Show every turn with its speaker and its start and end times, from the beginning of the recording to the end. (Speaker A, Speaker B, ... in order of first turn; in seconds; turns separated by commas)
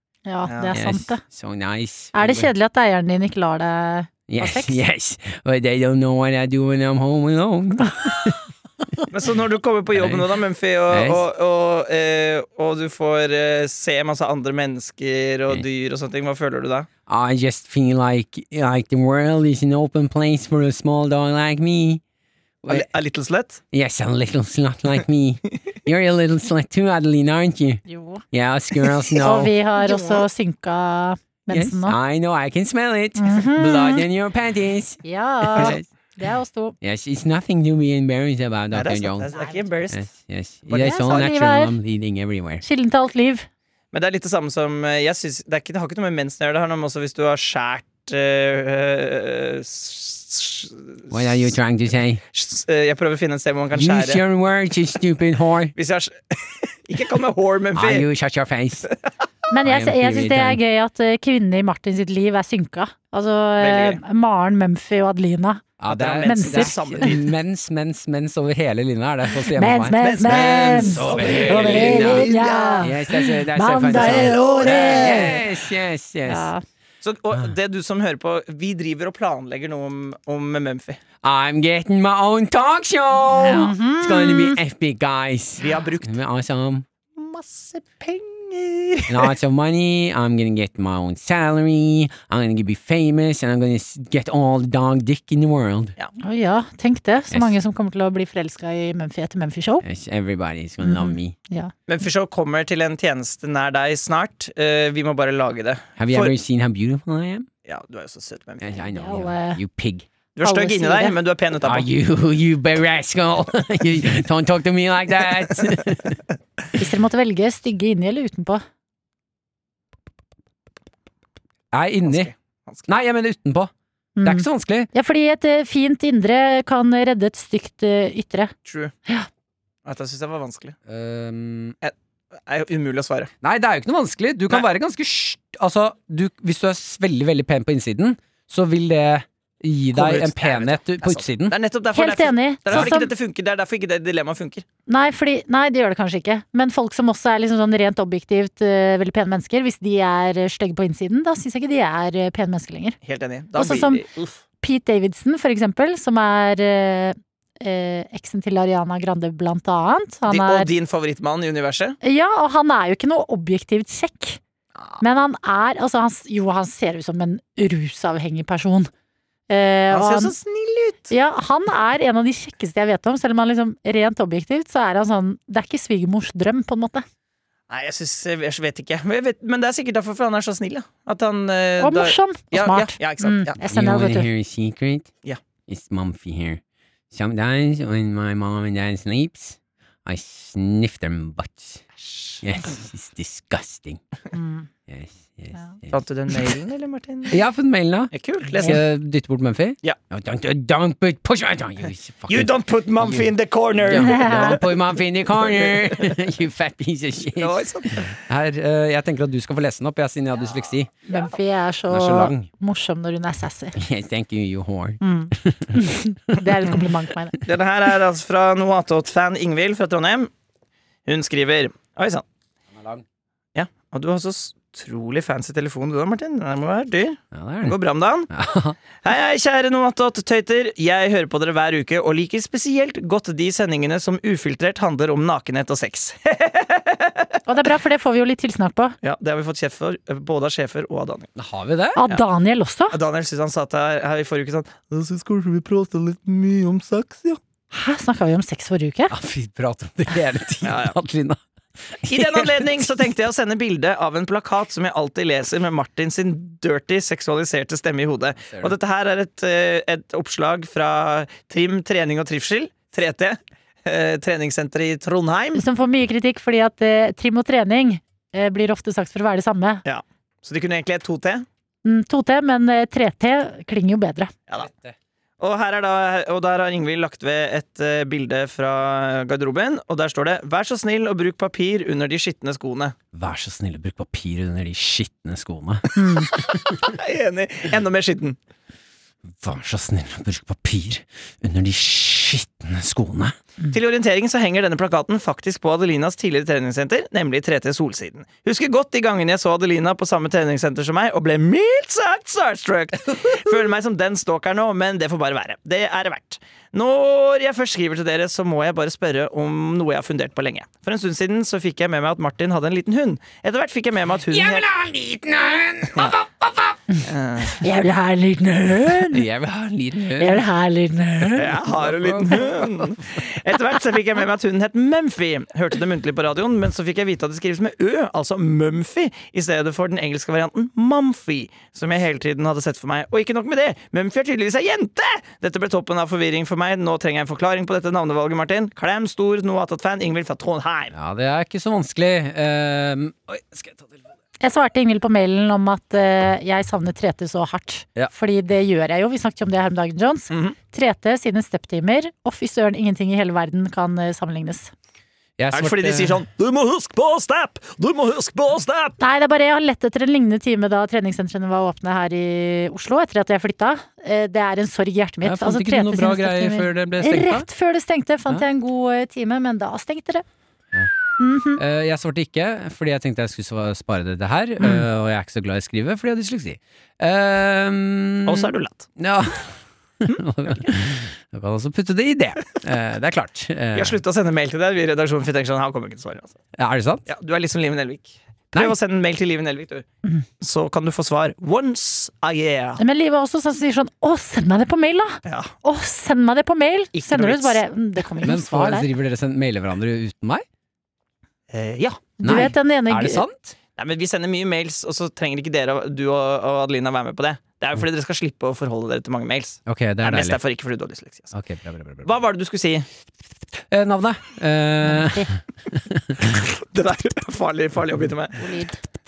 Speaker A: 0.2-1.2, Speaker B: 0.5-0.8, Speaker C: 0.7-2.5, Speaker A: 2.1-4.8, Speaker C: 4.3-9.0, Speaker B: 9.1-16.9, Speaker C: 9.9-10.3, Speaker C: 10.9-11.2, Speaker C: 17.1-22.0, Speaker B: 22.7-23.6, Speaker C: 23.7-29.5, Speaker A: 27.9-28.2, Speaker A: 29.2-31.9, Speaker B: 29.8-30.2, Speaker C: 31.5-35.9, Speaker A: 33.2-34.0, Speaker A: 35.0-36.7, Speaker C: 36.8-39.3, Speaker B: 38.7-40.1, Speaker C: 39.9-42.6, Speaker B: 40.7-41.3, Speaker A: 40.7-41.8, Speaker A: 42.6-43.5, Speaker B: 43.9-51.6, Speaker C: 51.1-52.2, Speaker B: 52.3-54.2, Speaker C: 53.7-55.7, Speaker B: 55.7-58.1, Speaker C: 57.7-58.9, Speaker A: 59.5-65.6, Speaker C: 59.6-60.6, Speaker B: 63.6-64.0, Speaker C: 65.8-76.5, Speaker B: 65.8-67.3, Speaker A: 66.2-67.1, Speaker A: 69.4-75.5, Speaker B: 70.0-72.9, Speaker B: 73.9-75.4, Speaker A: 76.2-76.6, Speaker B: 77.0-81.0, Speaker C: 81.2-86.8, Speaker A: 83.4-84.6, Speaker B: 85.6-86.2, Speaker B: 87.1-89.3, Speaker C: 89.1-95.9, Speaker A: 96.2-99.8, Speaker C: 99.8-101.3, Speaker A: 100.8-101.7, Speaker B: 101.9-106.3, Speaker C: 106.0-107.5, Speaker B: 107.6-108.8, Speaker C: 108.6-110.0, Speaker A: 108.9-109.6, Speaker B: 110.3-111.9, Speaker A: 110.4-111.2, Speaker C: 111.6-116.2, Speaker A: 116.8-118.6, Speaker C: 121.7-122.3, Speaker B: 122.0-122.9, Speaker C: 122.9-123.7, Speaker A: 124.2-128.5, Speaker C: 124.2-124.9, Speaker B: 128.6-128.9, Speaker B: 129.8-130.7, Speaker C: 130.9-131.7, Speaker B: 131.8-133.3, Speaker C: 133.4-141.6, Speaker B: 139.9-144.6, Speaker A: 141.9-143.1, Speaker A: 144.9-153.0, Speaker B: 153.0-154.3, Speaker A: 153.6-154.0, Speaker A: 154.6-160.7, Speaker B: 160.3-162.0, Speaker A: 162.0-164.4, Speaker B: 164.8-165.0, Speaker A: 165.0-168.9, Speaker A: 169.5-170.3, Speaker B: 169.9-171.1, Speaker A: 171.1-177.0, Speaker B: 177.7-183.6, Speaker A: 181.8-184.3, Speaker C: 183.6-185.1, Speaker C: 185.7-186.6, Speaker C: 187.1-191.8, Speaker B: 192.0-192.4, Speaker C: 192.4-194.0, Speaker A: 194.3-194.7, Speaker C: 194.9-196.0, Speaker B: 195.9-197.4, Speaker C: 197.3-203.3, Speaker B: 198.1-198.8, Speaker B: 202.3-206.2, Speaker C: 203.8-210.9, Speaker A: 203.9-204.6, Speaker B: 207.3-208.1, Speaker A: 211.1-213.8, Speaker C: 211.9-212.5, Speaker C: 213.8-216.7, Speaker A: 215.0-217.3, Speaker B: 217.4-220.3, Speaker B: 221.1-222.2, Speaker C: 222.7-223.0, Speaker B: 223.5-228.3, Speaker C: 227.3-227.8, Speaker C: 228.3-228.8, Speaker B: 229.0-237.3, Speaker A: 237.4-238.9, Speaker B: 239.0-241.3, Speaker C: 241.4-242.0, Speaker A: 241.9-243.0, Speaker B: 242.9-247.4, Speaker A: 247.7-249.1, Speaker C: 249.1-251.4, Speaker B: 250.6-250.9, Speaker C: 251.9-252.8, Speaker B: 252.1-265.6, Speaker A: 265.5-269.8, Speaker B: 269.8-271.4, Speaker A: 271.8-274.3, Speaker C: 274.6-274.9, Speaker B: 275.4-282.9, Speaker C: 283.1-286.9, Speaker A: 286.0-286.3, Speaker B: 286.7-288.4, Speaker C: 289.3-293.3, Speaker B: 293.7-314.6, Speaker C: 314.3-316.8, Speaker B: 317.0-317.6, Speaker A: 317.6-319.2, Speaker C: 319.1-320.4, Speaker A: 320.1-321.5, Speaker C: 321.3-323.2, Speaker B: 321.3-340.9, Speaker C: 340.9-343.9, Speaker A: 344.4-354.7, Speaker B: 350.3-350.6, Speaker C: 355.4-356.2, Speaker B: 355.5-359.0, Speaker A: 359.0-370.2, Speaker C: 365.2-367.5, Speaker A: 371.2-371.6, Speaker C: 371.6-384.0, Speaker B: 378.2-378.9, Speaker B: 383.7-386.4, Speaker C: 386.6-387.1, Speaker B: 387.1-389.9, Speaker B: 390.4-392.8, Speaker A: 392.8-398.9, Speaker B: 395.2-395.5, Speaker B: 396.9-397.6, Speaker C: 398.2-400.4, Speaker B: 401.5-402.1, Speaker A: 402.2-403.2, Speaker C: 402.2-403.5, Speaker B: 403.8-411.3, Speaker C: 409.6-410.4, Speaker C: 411.3-412.1, Speaker B: 412.0-412.9, Speaker C: 413.7-416.2, Speaker A: 414.8-415.3, Speaker B: 416.2-418.5, Speaker A: 418.4-418.8